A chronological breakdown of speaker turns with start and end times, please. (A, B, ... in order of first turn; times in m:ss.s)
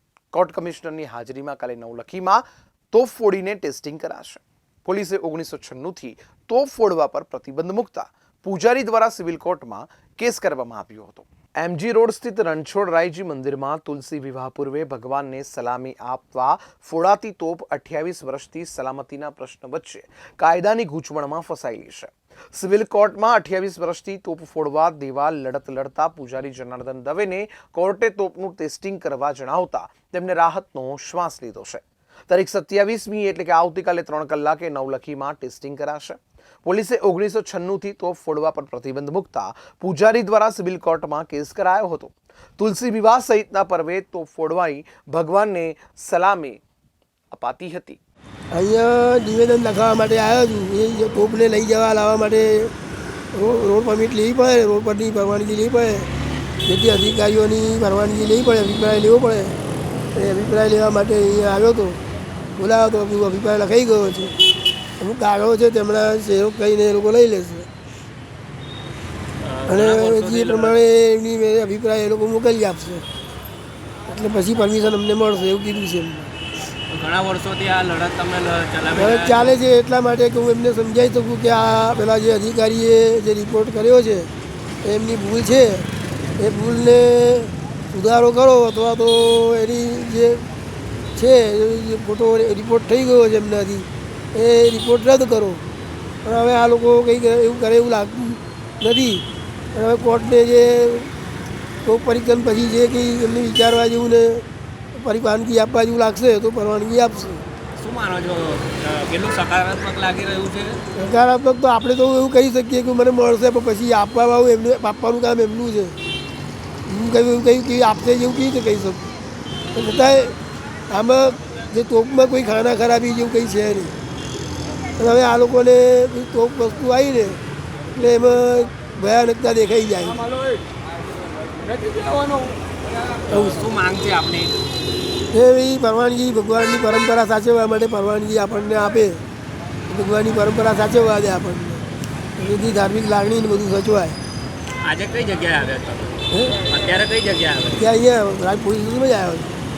0:00.3-0:46.6 A
0:47.3-0:48.0 A
0:48.5-0:52.7 B
0:53.3-0:56.1 B
0:56.6-0:59.5 B
1:00.1-1:02.0 B
1:02.6-1:04.3 B
1:05.0-1:07.7 B
1:09.4-1:10.8 C
1:09.7-1:13.0 B
1:14.1-1:16.3 B
1:16.9-1:19.6 C
1:18.9-1:24.3 B
1:24.8-1:25.9 B
1:26.4-1:30.4 B
1:31.2-1:35.6 B
1:36.2-1:41.1 B
1:41.8-1:47.4 B
1:47.8-1:50.8 C
1:50.9-1:56.0 B
1:56.8-1:59.0 B
1:59.7-2:00.4 B
2:00.9-2:03.9 B
2:05.0-2:07.4 B
2:07.9-2:10.2 B
2:13.3-2:14.6 C
2:13.3-2:13.7 B
2:15.3-2:19.2 B
2:19.9-2:21.8 B
2:22.4-2:24.2 B
2:24.8-2:27.8 C
2:27.8-2:29.6 B